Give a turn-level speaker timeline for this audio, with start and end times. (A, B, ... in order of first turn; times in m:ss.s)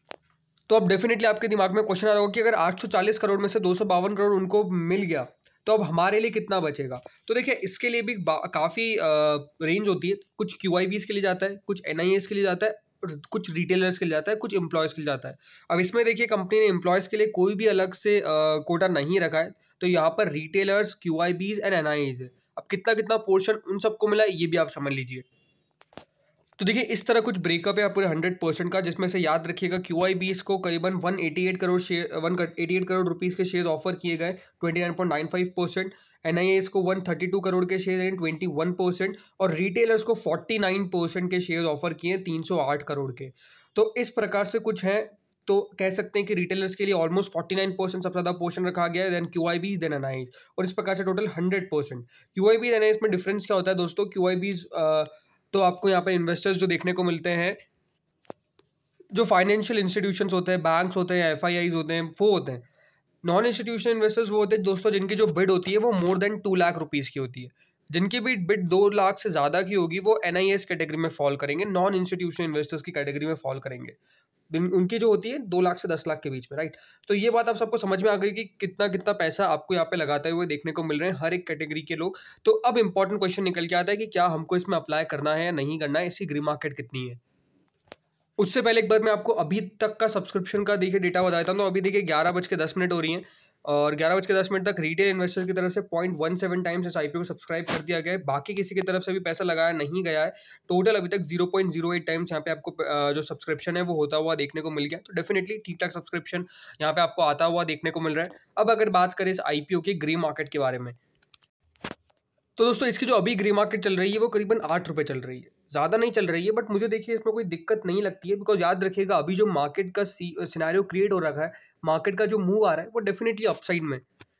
0:00.7-0:25.2 A
0:26.6-0:57.6 A
0:59.1-1:02.6 A
1:03.2-1:14.0 A
1:14.5-1:27.2 A
1:28.4-1:51.0 A
1:52.6-2:04.0 A